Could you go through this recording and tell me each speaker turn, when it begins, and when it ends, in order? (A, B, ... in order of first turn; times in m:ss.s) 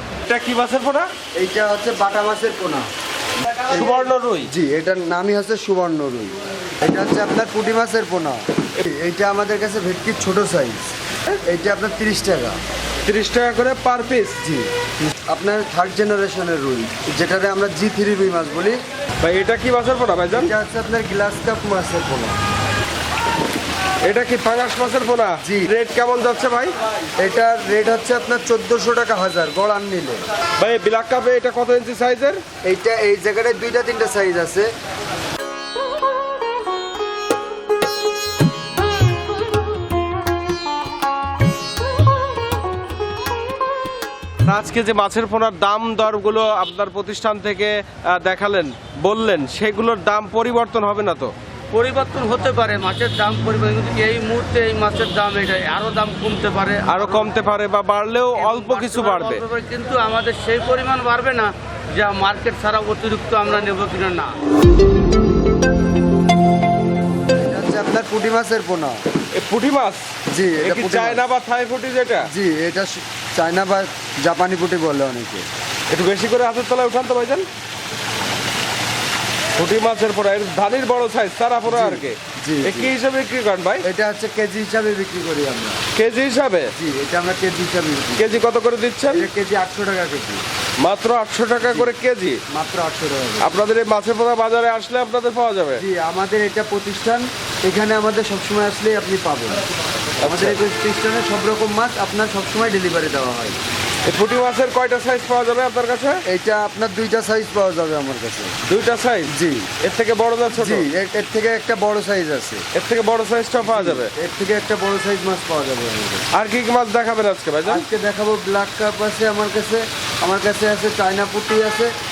0:00.3-0:01.1 A
0:01.4-0:02.9 B
0:03.7-0:04.0 B
0:03.7-0:04.5 A
0:04.5-0:10.9 B
0:11.5-0:12.6 B
0:13.0-0:14.4 A
0:14.4-0:18.8 B
0:19.2-0:20.5 A
0:20.3-0:22.4 B
0:24.0-0:26.7 A
0:25.4-0:25.7 B
0:27.2-0:30.2 B
0:30.6-0:32.4 A
0:32.6-0:34.7 B
0:44.4-0:51.3 A
0:51.7-0:57.3 C
0:56.9-0:59.4 A
0:58.4-1:04.4 C
1:07.3-1:09.0 B
1:09.3-1:10.1 A
1:10.3-1:11.2 B
1:10.6-1:12.3 A
1:12.3-1:15.5 B
1:15.9-1:17.5 A
1:19.6-1:23.8 A
1:21.6-1:23.0 B
1:23.8-1:25.8 B
1:25.9-1:26.7 A
1:26.8-1:28.4 B
1:28.2-1:29.3 A
1:29.1-1:30.4 B
1:30.8-1:32.4 A
1:32.5-1:33.6 B
1:33.4-1:35.8 A
1:35.8-1:39.6 B
1:40.2-1:40.6 A
1:40.2-1:43.6 B
1:44.0-1:46.2 A
1:46.3-1:48.6 B
1:48.7-1:50.9 A
1:49.3-1:49.7 B
1:50.5-1:52.6 B
1:52.7-1:54.1 A
1:53.6-1:56.3 B
1:56.3-1:57.8 A
1:57.7-2:01.9 B